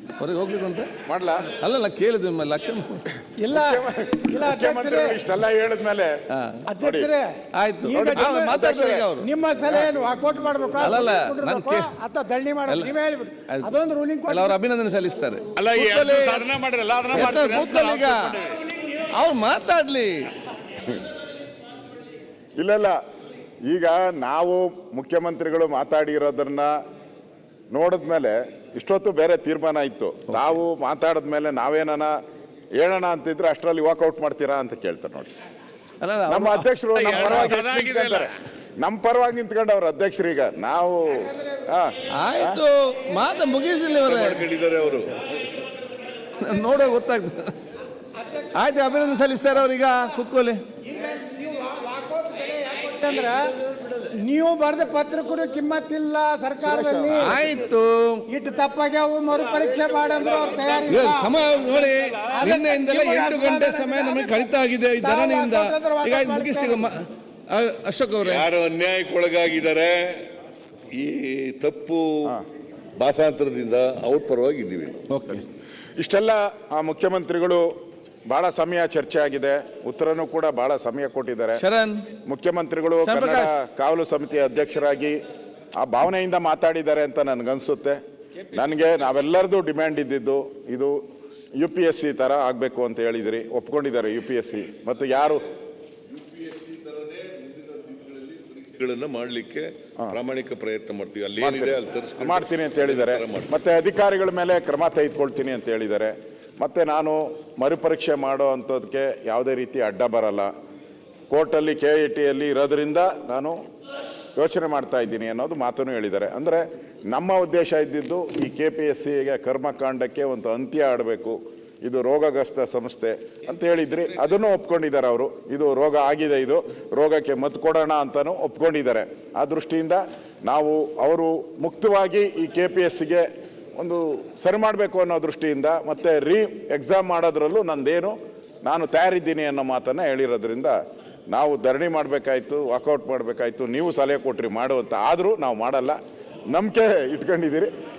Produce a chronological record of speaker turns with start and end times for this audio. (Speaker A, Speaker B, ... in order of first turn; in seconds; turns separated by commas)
Speaker A: 0.2-0.9, Speaker B: 1.1-1.5, Speaker A: 1.6-3.0, Speaker C: 3.4-5.2, Speaker B: 3.5-6.1, Speaker A: 6.3-6.7, Speaker C: 6.7-7.3, Speaker B: 6.8-7.1, Speaker A: 7.5-9.3, Speaker C: 7.8-8.5, Speaker B: 7.9-9.1, Speaker C: 9.2-14.6, Speaker B: 9.7-9.9, Speaker A: 10.8-11.9, Speaker A: 12.7-12.9, Speaker A: 13.5-13.7, Speaker A: 14.3-16.5, Speaker D: 15.6-18.6, Speaker A: 17.1-18.4, Speaker A: 18.9-20.2, Speaker B: 22.6-23.0, Speaker B: 23.7-26.7, Speaker B: 27.7-32.1, Speaker B: 32.8-35.3, Speaker A: 36.0-36.7, Speaker B: 36.3-42.6, Speaker D: 37.0-38.3, Speaker A: 42.1-44.4, Speaker E: 44.0-45.2, Speaker A: 46.4-47.5, Speaker A: 48.5-50.6, Speaker C: 50.9-53.5, Speaker C: 54.1-57.3, Speaker B: 56.6-57.4, Speaker A: 57.2-58.3, Speaker C: 58.3-61.3, Speaker A: 60.9-68.5, Speaker C: 62.3-66.9, Speaker E: 68.2-70.3, Speaker E: 70.9-72.3, Speaker E: 73.0-75.0, Speaker A: 75.1-75.4, Speaker B: 76.0-77.7, Speaker B: 78.3-81.6, Speaker A: 81.6-82.1, Speaker B: 82.3-85.2, Speaker A: 83.0-83.5, Speaker B: 85.8-88.0, Speaker B: 88.5-91.0, Speaker B: 91.6-95.4, Speaker E: 96.1-103.5, Speaker B: 101.4-110.5, Speaker B: 111.3-113.6, Speaker B: 114.4-138.1, Speaker B: 138.7-140.8, Speaker B: 141.3-146.0, Speaker B: 146.5-147.7